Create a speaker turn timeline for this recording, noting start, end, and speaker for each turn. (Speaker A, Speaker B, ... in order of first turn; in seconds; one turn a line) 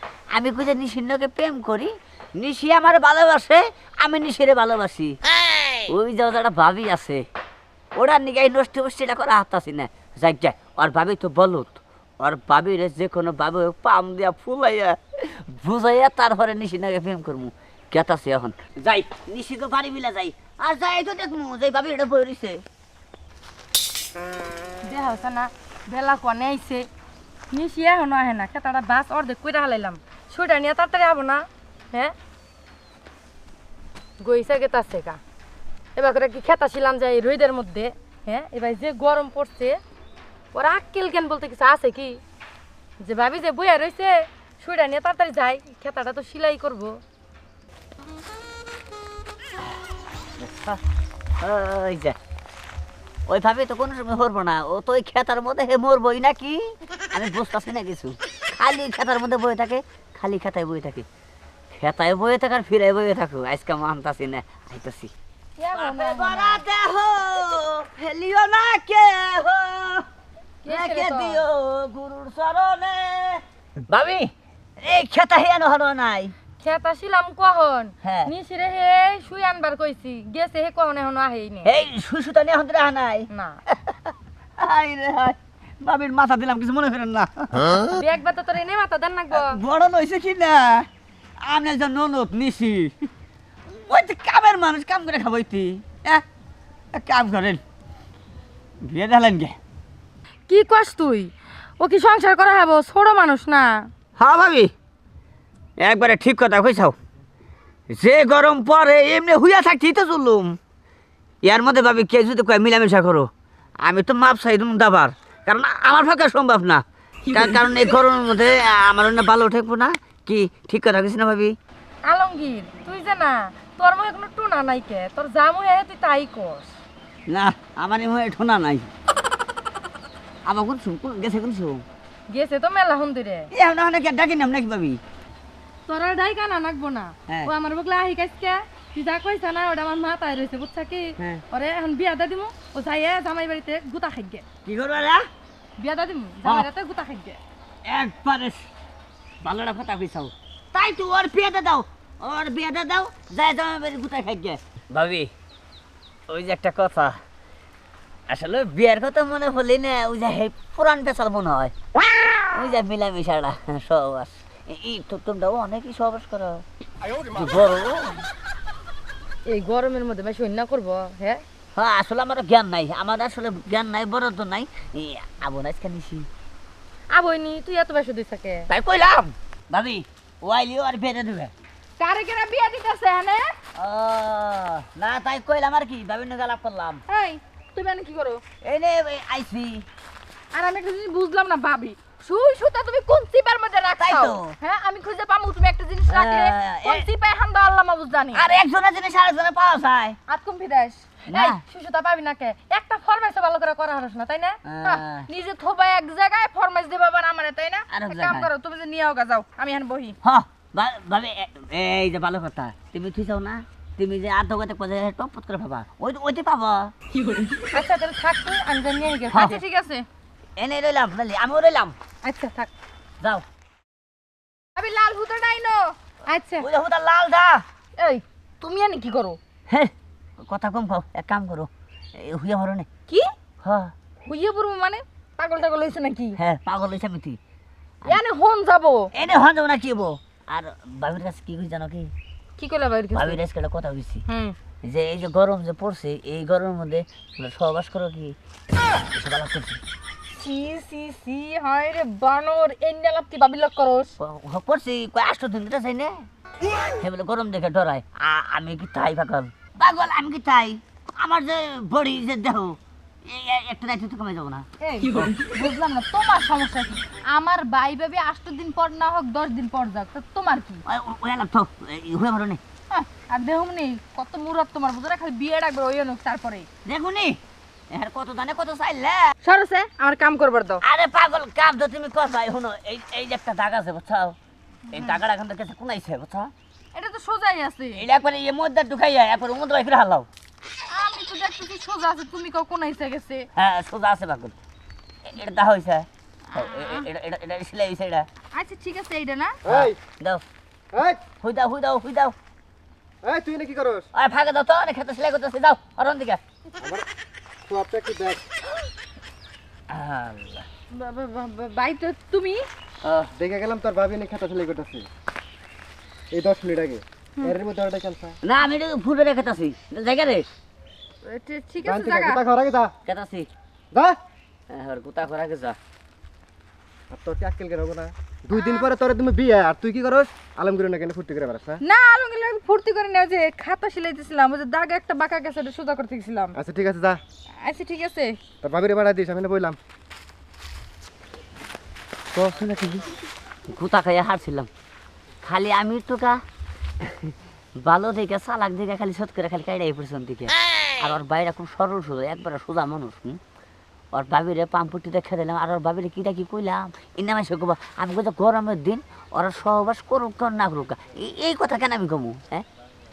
Speaker A: 0.3-5.1
Speaker A: 5.9-7.2
Speaker A: 8.0-22.6
Speaker B: 24.8-26.9
Speaker B: 27.5-32.1
Speaker B: 34.2-35.2
Speaker B: 36.0-39.8
Speaker B: 40.5-42.2
Speaker B: 43.0-47.0
Speaker A: 50.4-50.8
Speaker A: 51.4-52.1
Speaker A: 53.3-61.0
Speaker A: 61.7-65.1
Speaker B: 65.6-66.6
Speaker A: 65.7-70.0
Speaker B: 70.6-71.4
Speaker A: 70.7-76.3
Speaker B: 76.6-81.7
Speaker A: 78.0-78.3
Speaker A: 81.6-88.0
Speaker B: 83.3-83.6
Speaker B: 87.9-89.6
Speaker A: 89.3-90.9
Speaker A: 91.4-92.9
Speaker A: 93.7-96.2
Speaker A: 96.9-97.6
Speaker A: 98.8-99.6
Speaker B: 100.5-103.9
Speaker A: 104.2-104.7
Speaker A: 105.8-107.0
Speaker A: 107.9-110.5
Speaker A: 111.4-113.3
Speaker A: 113.8-121.5
Speaker B: 122.0-126.8
Speaker A: 127.3-128.9
Speaker A: 130.4-131.8
Speaker B: 132.3-133.5
Speaker A: 133.5-135.0
Speaker B: 135.9-144.4
Speaker A: 137.3-137.5
Speaker A: 141.2-141.4
Speaker A: 144.6-145.2
Speaker B: 145.8-147.4
Speaker A: 147.8-148.6
Speaker A: 149.4-155.3
Speaker A: 156.3-157.2
Speaker A: 158.3-161.7
Speaker A: 162.5-166.6
Speaker A: 167.3-168.2
Speaker B: 169.4-171.4
Speaker A: 171.8-176.3
Speaker B: 177.1-178.7
Speaker A: 178.7-181.5
Speaker B: 182.0-183.6
Speaker A: 183.8-187.0
Speaker B: 187.1-188.4
Speaker A: 188.6-189.8
Speaker B: 190.5-198.5
Speaker A: 194.0-194.6
Speaker A: 196.1-197.1
Speaker A: 198.3-200.2
Speaker B: 200.3-210.2
Speaker A: 201.3-201.6
Speaker A: 204.6-205.2
Speaker A: 207.9-208.5
Speaker A: 210.2-216.9
Speaker B: 217.6-220.1
Speaker A: 219.3-219.6
Speaker A: 220.6-221.9
Speaker B: 222.2-222.7
Speaker B: 224.8-226.7
Speaker A: 226.6-227.6
Speaker B: 228.0-229.4
Speaker A: 229.7-232.9
Speaker A: 233.6-233.9
Speaker B: 234.2-236.4
Speaker A: 236.3-237.4
Speaker B: 238.1-239.1
Speaker A: 239.1-242.1
Speaker B: 242.6-243.4
Speaker A: 243.1-244.2
Speaker B: 244.3-244.6
Speaker A: 244.8-248.3
Speaker A: 249.1-249.8
Speaker B: 250.3-254.1
Speaker A: 254.2-256.1
Speaker A: 257.0-265.4
Speaker B: 264.8-270.8
Speaker A: 270.9-272.6
Speaker B: 272.9-276.7
Speaker A: 276.8-277.4
Speaker A: 277.9-279.3
Speaker B: 279.4-280.8
Speaker A: 280.8-284.4
Speaker A: 284.9-286.5
Speaker B: 286.9-288.0
Speaker A: 287.9-290.3
Speaker B: 290.9-293.5
Speaker A: 293.6-294.5
Speaker A: 295.2-298.3
Speaker B: 296.5-297.1
Speaker B: 298.5-299.6
Speaker C: 299.6-300.0
Speaker A: 299.6-300.4
Speaker C: 300.9-301.2
Speaker A: 301.4-302.3
Speaker C: 303.2-304.1
Speaker A: 304.1-306.4
Speaker C: 307.7-308.4
Speaker A: 309.9-310.6
Speaker B: 310.9-312.6
Speaker A: 313.0-313.3
Speaker C: 313.3-315.1
Speaker C: 316.3-318.4
Speaker A: 318.4-320.5
Speaker B: 321.2-322.4
Speaker C: 321.8-322.9
Speaker A: 323.1-323.5
Speaker A: 324.7-325.8
Speaker C: 327.1-331.8
Speaker B: 328.5-328.9
Speaker B: 331.8-336.6
Speaker C: 336.5-337.2
Speaker B: 337.6-338.4
Speaker C: 338.6-339.8
Speaker A: 342.3-343.1
Speaker A: 343.7-344.7
Speaker A: 345.4-346.4
Speaker A: 347.0-347.3
Speaker A: 347.8-353.4
Speaker A: 354.1-362.6